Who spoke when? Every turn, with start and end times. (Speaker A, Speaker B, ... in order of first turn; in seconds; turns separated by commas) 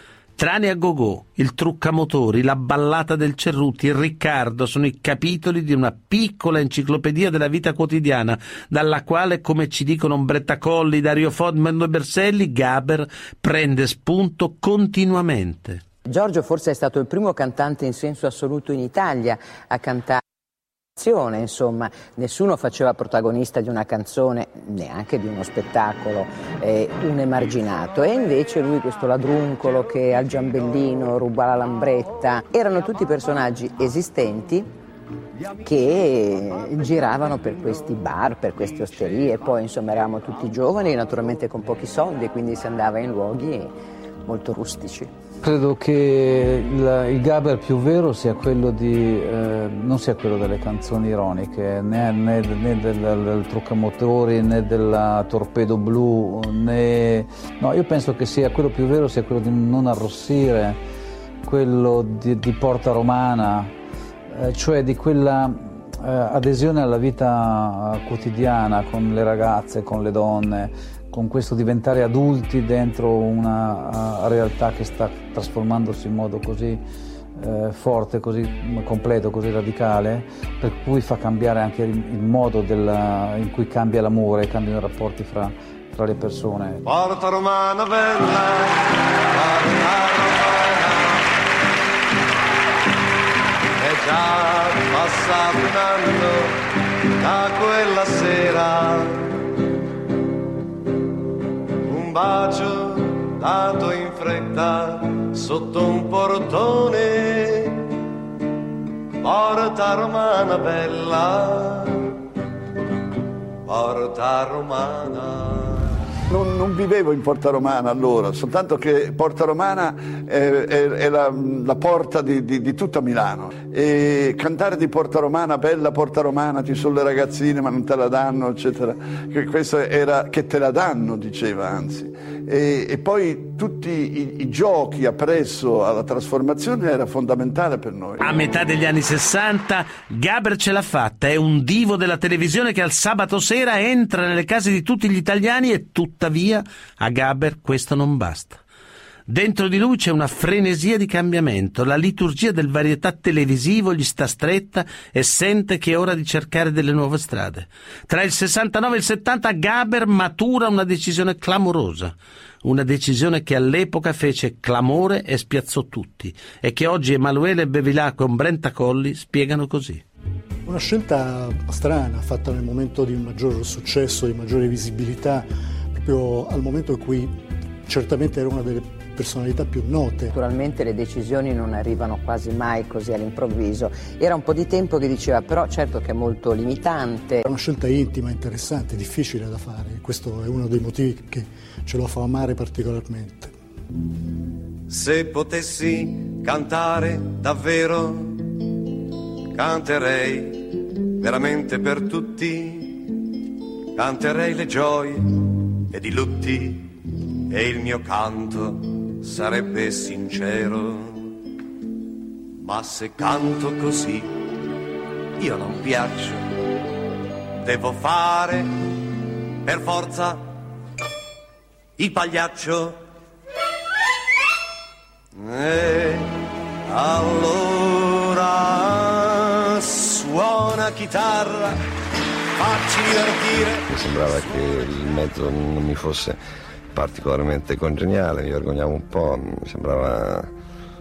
Speaker A: 0.4-15.8, Speaker B: 16.1-20.2, Speaker B: 21.0-34.7, Speaker B: 35.6-43.7, Speaker B: 44.2-45.1, Speaker C: 45.4-60.8, Speaker C: 61.4-63.7, Speaker C: 64.3-76.8, Speaker C: 77.4-86.8, Speaker D: 86.8-91.3, Speaker D: 93.8-96.6, Speaker D: 97.2-99.3, Speaker D: 101.8-107.8, Speaker D: 109.2-112.1, Speaker D: 113.7-115.9, Speaker E: 116.3-138.2, Speaker A: 138.2-148.6, Speaker A: 149.3-170.0, Speaker F: 170.7-177.4, Speaker F: 177.9-180.3, Speaker B: 180.3-187.4, Speaker F: 187.4-193.5, Speaker D: 194.9-198.5, Speaker D: 199.5-203.1, Speaker D: 204.0-205.3, Speaker D: 205.9-206.9, Speaker D: 207.5-211.3, Speaker D: 212.6-214.3, Speaker D: 215.4-216.5, Speaker D: 217.6-218.8, Speaker D: 219.7-220.5, Speaker D: 222.0-223.0, Speaker D: 225.4-226.3, Speaker D: 226.9-231.8, Speaker D: 232.6-233.8, Speaker G: 233.9-236.4, Speaker G: 236.9-240.5